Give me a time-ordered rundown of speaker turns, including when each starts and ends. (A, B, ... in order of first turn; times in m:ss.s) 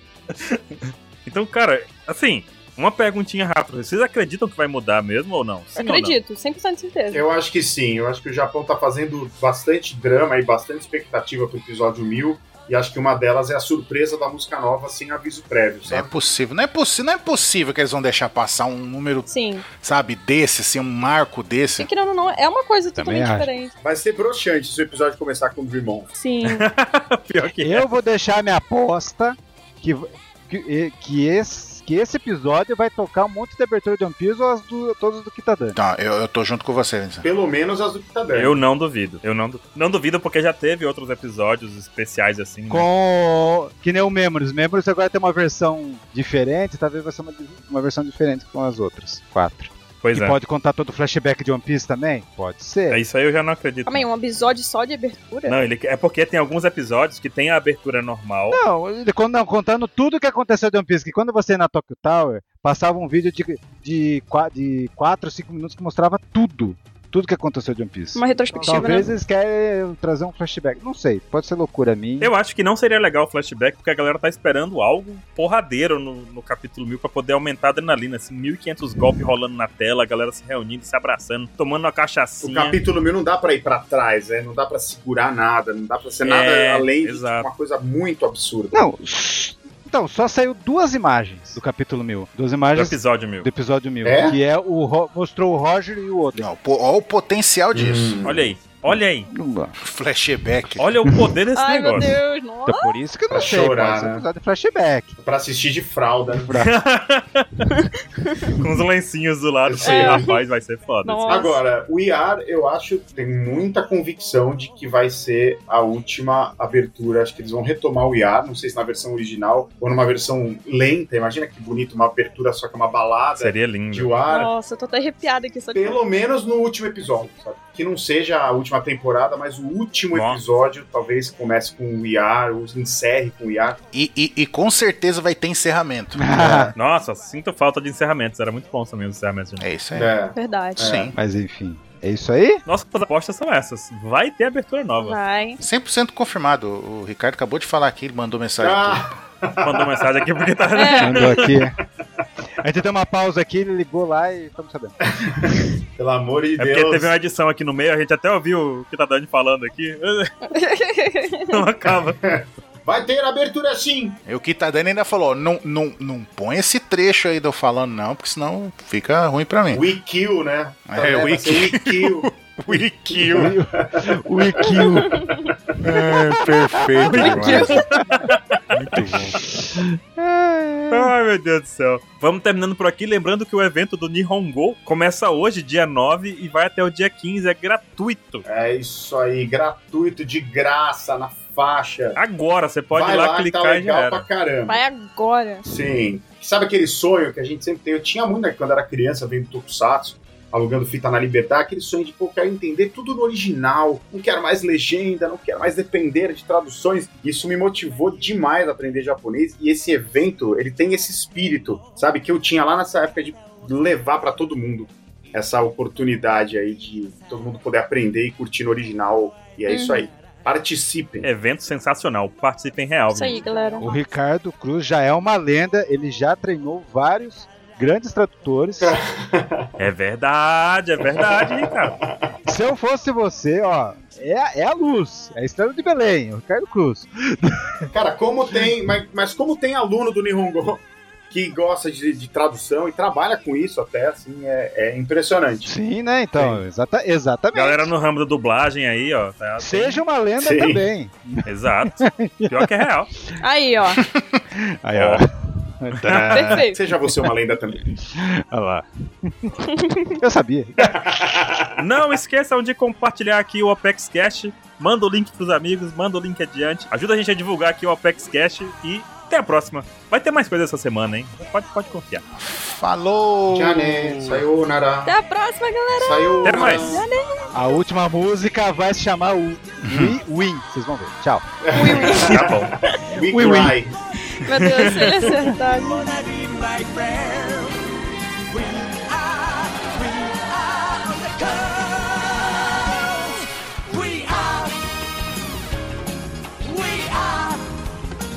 0:00.3-0:06.2 A
0:05.8-0:07.2 B
0:07.1-0:16.1 C
0:15.9-0:21.9 D
0:19.3-0:19.6 B
0:21.8-0:23.7 B
0:23.0-0:23.5 E
0:23.8-0:26.1 C
0:26.2-0:26.6 B
0:26.4-0:27.8 A
0:27.6-0:35.8 E
0:35.7-0:37.2 D
0:37.2-0:38.6 C
0:38.3-0:42.9 A
0:42.7-0:53.0 E
0:50.0-0:50.4 A
0:52.9-0:54.1 A
0:53.8-0:55.6 B
0:55.5-0:58.6 A
0:58.5-1:12.3 E
1:08.1-1:09.1 B
1:08.6-1:09.0 C
1:12.2-1:22.8 A
1:22.4-1:28.8 C
1:26.2-1:27.5 A
1:28.7-1:36.5 E
1:32.7-1:33.5 A
1:34.0-1:34.4 C
1:36.4-1:38.2 D
1:37.7-1:38.5 C
1:38.2-1:39.3 A
1:39.3-1:39.7 E
1:39.8-1:40.9 D
1:40.8-1:42.2 A
1:41.6-1:43.0 B
1:42.6-1:45.2 E
1:43.3-1:44.2 C
1:45.2-1:46.5 C
1:46.3-1:46.7 E
1:46.6-1:47.7 A
1:47.7-1:48.5 B
1:48.6-1:51.3 A
1:49.6-1:50.3 C
1:49.8-1:50.4 B
1:51.0-1:51.6 B
1:51.3-2:04.5 C
2:03.4-2:04.2 A
2:04.3-2:06.0 B
2:05.7-2:13.8 C
2:10.1-2:10.4 A
2:13.9-2:16.3 D
2:16.1-2:16.7 E
2:16.3-2:16.7 C
2:16.8-2:19.6 A
2:19.6-2:20.1 D
2:19.9-2:21.1 C
2:20.4-2:20.8 B
2:20.8-2:21.2 D
2:21.1-2:22.6 E
2:22.6-2:25.2 A
2:25.0-2:25.6 B
2:25.6-2:29.0 D
2:28.6-2:30.2 C
2:29.6-2:31.5 A
2:30.8-2:31.4 B
2:31.0-2:31.8 E
2:32.6-2:35.6 E
2:35.2-2:37.1 C
2:36.6-2:40.3 A
2:40.5-2:41.6 B
2:41.4-2:42.2 A
2:42.2-2:44.2 C
2:44.2-2:49.8 D
2:49.7-2:55.7 C
2:50.9-2:53.5 D
2:53.3-2:55.2 E
2:55.8-2:57.8 D
2:56.0-2:58.3 E
2:57.1-2:58.9 A
2:57.2-2:57.9 B
2:58.9-3:01.1 E
3:00.9-3:08.4 A
3:08.4-3:12.2 C
3:12.2-3:14.2 A
3:12.9-3:14.8 C
3:14.7-3:15.6 B
3:15.6-3:41.3 C
3:39.7-3:40.0 B
3:41.2-3:43.4 A
3:43.1-3:43.9 B
3:43.8-3:49.0 E
3:48.8-3:49.8 C
3:49.8-3:51.9 A
3:51.1-3:52.3 C
3:52.4-3:57.9 E
3:57.9-4:05.7 C
4:05.7-4:07.9 E
4:06.4-4:06.6 C
4:07.5-4:10.0 A
4:09.6-4:12.7 E
4:10.4-4:10.8 C
4:11.4-4:13.1 A
4:13.4-4:14.0 B
4:14.0-4:14.4 D
4:14.5-4:17.1 E
4:14.9-4:15.2 A
4:16.0-4:17.8 C
4:16.3-4:16.8 B
4:17.9-4:19.5 E
4:19.7-4:20.1 B
4:20.2-4:21.5 E
4:20.8-4:21.7 C
4:21.8-4:32.2 A
4:32.4-4:34.4 D
4:33.5-4:35.1 C
4:35.0-4:37.5 B
4:35.9-4:37.0 C
4:36.4-4:36.9 A
4:37.5-4:41.6 E
4:39.9-4:40.2 D
4:41.6-4:44.0 C
4:41.7-4:43.1 B
4:42.2-4:42.7 A
4:43.2-4:43.8 E
4:44.4-4:46.1 B
4:44.5-4:45.3 A
4:45.7-4:47.8 F
4:48.5-4:54.9 F
4:56.6-4:57.6 F